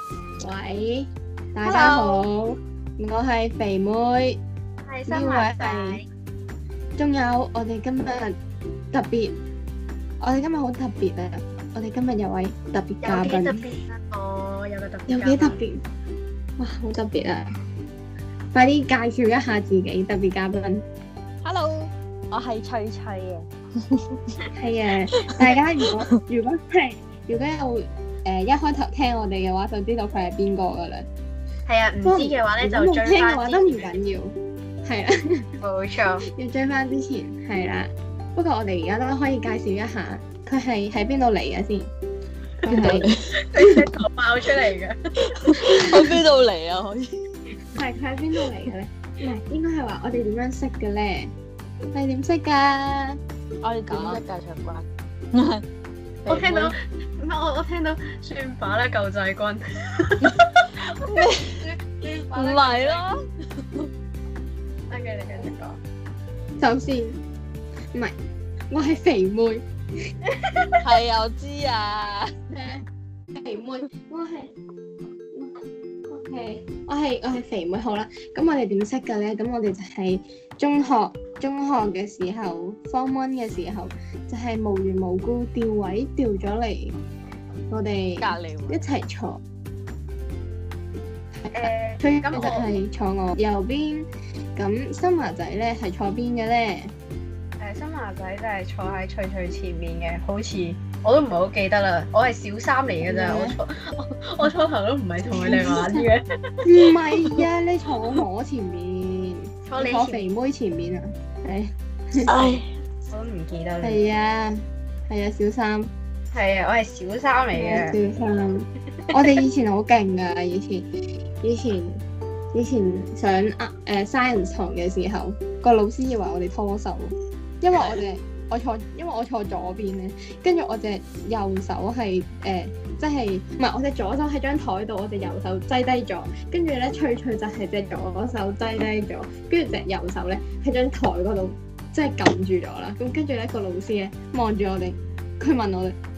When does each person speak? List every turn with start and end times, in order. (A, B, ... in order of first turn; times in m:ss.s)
0:00.4-0:04.4 A
0:01.6-0:02.2 B
0:04.9-0:06.0 B
0:05.1-0:06.0 A
0:07.0-0:08.3 A
0:08.9-0:09.4 A
0:10.2-0:13.6 A
0:13.0-0:15.6 B
0:15.1-0:15.8 A
0:16.6-0:17.5 A
0:18.5-0:20.8 A
0:21.4-0:24.0 C
0:24.6-0:31.1 A
0:31.7-0:34.0 B
0:32.0-0:35.5 A
0:35.6-0:36.2 B
0:36.2-0:41.9 A
0:42.6-0:46.0 B
0:42.7-0:43.1 A
0:42.7-0:43.3 C
0:45.2-0:47.1 C
0:45.8-0:46.0 A
0:47.8-0:51.3 A
0:51.9-0:53.2 A
0:53.6-0:55.6 C
0:56.2-0:56.8 C
0:56.3-1:03.0 B
1:00.2-1:01.6 C
1:02.3-1:03.9 C
1:04.9-1:05.8 B
1:06.6-1:07.2 A
1:08.7-1:09.7 A
1:10.4-1:10.8 B
1:10.8-1:12.3 C
1:12.5-1:14.5 A
1:15.3-1:27.0 A
1:27.7-1:29.4 A
1:28.2-1:28.8 C
1:31.4-1:36.9 A
1:31.5-1:32.7 B
1:37.6-1:47.4 B
1:43.0-1:43.6 A
1:45.2-1:46.1 A
1:46.6-1:52.3 A
1:49.7-1:50.3 B
1:52.3-1:54.1 B
1:53.8-1:55.9 A
1:56.3-1:58.0 B
1:57.5-2:00.9 A
2:01.4-2:26.0 A